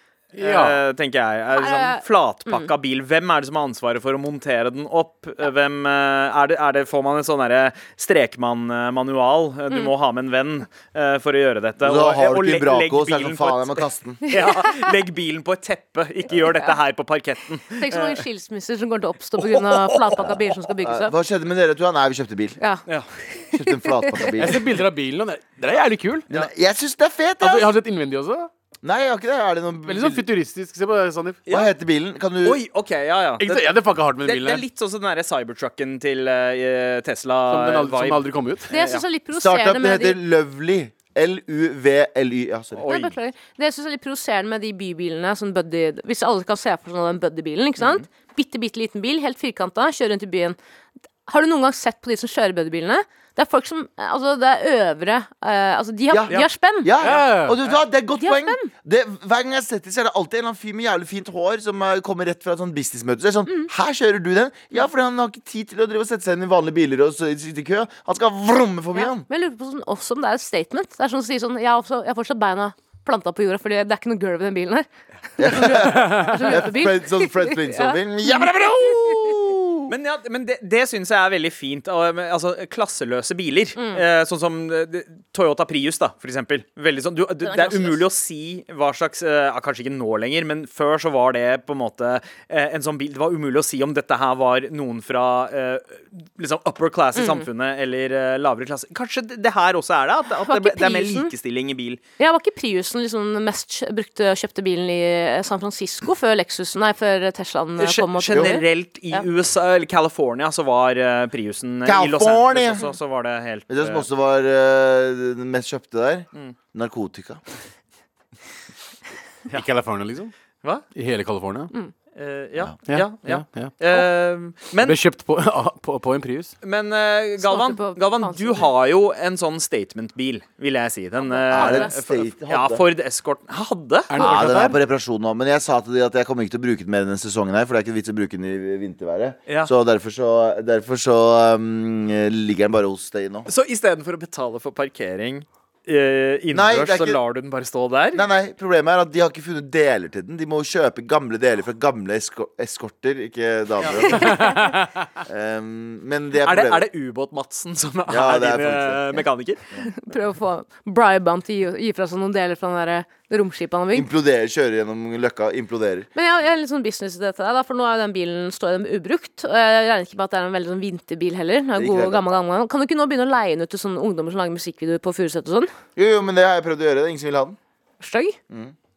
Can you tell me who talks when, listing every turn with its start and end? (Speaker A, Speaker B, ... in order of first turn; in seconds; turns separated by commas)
Speaker A: 0.3-0.8, Speaker B: 0.4-18.2, Speaker C: 1.6-2.7, Speaker D: 11.8-14.2, Speaker C: 17.8-21.1, Speaker B: 19.4-20.1, Speaker D: 20.2-22.6, Speaker D: 23.5-24.6, Speaker C: 23.7-24.2, Speaker A: 24.4-26.3, Speaker D: 26.3-27.7, Speaker A: 27.4-28.5, Speaker D: 28.8-30.2, Speaker A: 29.9-31.4, Speaker D: 31.5-32.6, Speaker B: 32.4-39.0, Speaker A: 33.4-34.6, Speaker A: 37.5-38.7, Speaker C: 38.7-40.2, Speaker D: 39.3-42.9, Speaker B: 42.8-43.2, Speaker C: 42.9-50.6, Speaker B: 47.8-48.0, Speaker C: 51.3-56.9, Speaker D: 56.1-69.3, Speaker A: 57.0-57.6, Speaker C: 58.2-58.7, Speaker C: 69.0-78.5, Speaker D: 75.4-79.9, Speaker A: 76.0-76.4, Speaker C: 79.0-79.3, Speaker B: 79.9-102.0, Speaker C: 83.8-84.0, Speaker C: 87.4-88.0, Speaker C: 97.2-97.5, Speaker C: 100.4-101.3, Speaker C: 102.2-109.3, Speaker B: 107.8-114.1, Speaker D: 111.8-112.9, Speaker D: 113.7-117.4, Speaker A: 119.5-120.3, Speaker A: 121.0-121.7, Speaker B: 122.2-125.0, Speaker A: 122.9-124.0, Speaker A: 124.8-126.5, Speaker B: 126.6-134.2, Speaker C: 127.4-128.7, Speaker C: 131.2-131.9, Speaker D: 131.5-132.8, Speaker A: 134.1-134.8, Speaker D: 134.2-143.5, Speaker B: 139.5-139.7, Speaker B: 143.5-148.2, Speaker D: 146.5-147.2, Speaker D: 148.1-154.6, Speaker B: 153.8-154.1, Speaker C: 154.2-154.6, Speaker A: 154.3-154.9, Speaker D: 155.2-156.9, Speaker B: 156.4-159.6, Speaker D: 158.1-159.2, Speaker C: 159.8-164.1, Speaker D: 163.9-166.1, Speaker C: 166.2-175.7, Speaker D: 171.8-172.2, Speaker D: 176.0-177.6, Speaker C: 178.0-178.4